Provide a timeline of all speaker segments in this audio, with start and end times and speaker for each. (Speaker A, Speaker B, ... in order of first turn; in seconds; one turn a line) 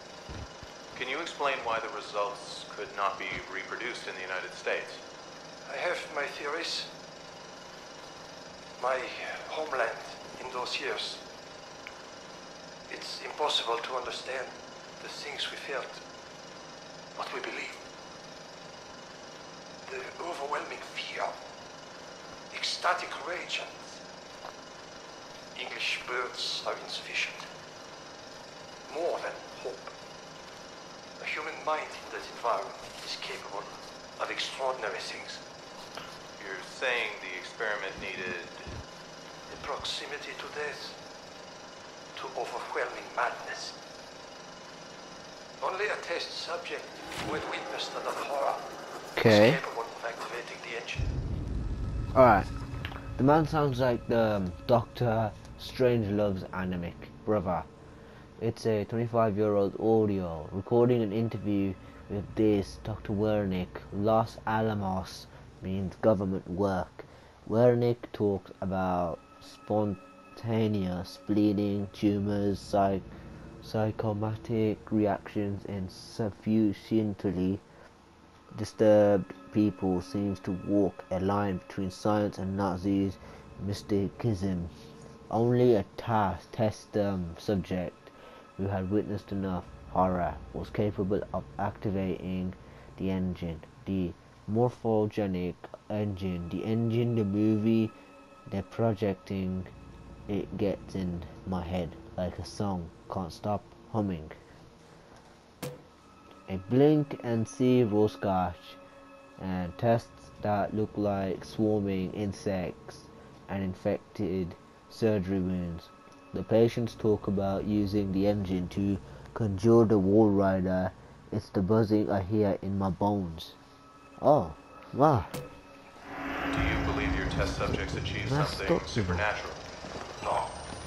Speaker A: 0.9-5.0
Speaker B: 5.7-6.9
Speaker B: 8.8-11.2
Speaker B: 12.9-16.0
Speaker B: 17.1-17.8
Speaker B: 19.9-21.4
Speaker B: 22.5-24.0
Speaker B: 25.6-27.5
Speaker B: 28.9-29.9
Speaker B: 31.2-35.4
Speaker A: 36.4-38.7
Speaker B: 39.5-41.0
Speaker B: 42.1-43.8
Speaker B: 45.6-51.1
Speaker C: 49.2-49.6
Speaker C: 52.1-52.5
Speaker C: 53.2-57.7
Speaker C: 58.4-73.1
Speaker C: 73.6-77.6
Speaker C: 78.5-84.7
Speaker C: 85.3-97.9
Speaker C: 98.5-99.7
Speaker C: 100.3-104.4
Speaker C: 106.5-108.8
Speaker C: 109.4-123.6
Speaker C: 124.2-125.3
Speaker A: 126.5-129.6
Speaker C: 128.3-129.2
Speaker B: 130.2-130.5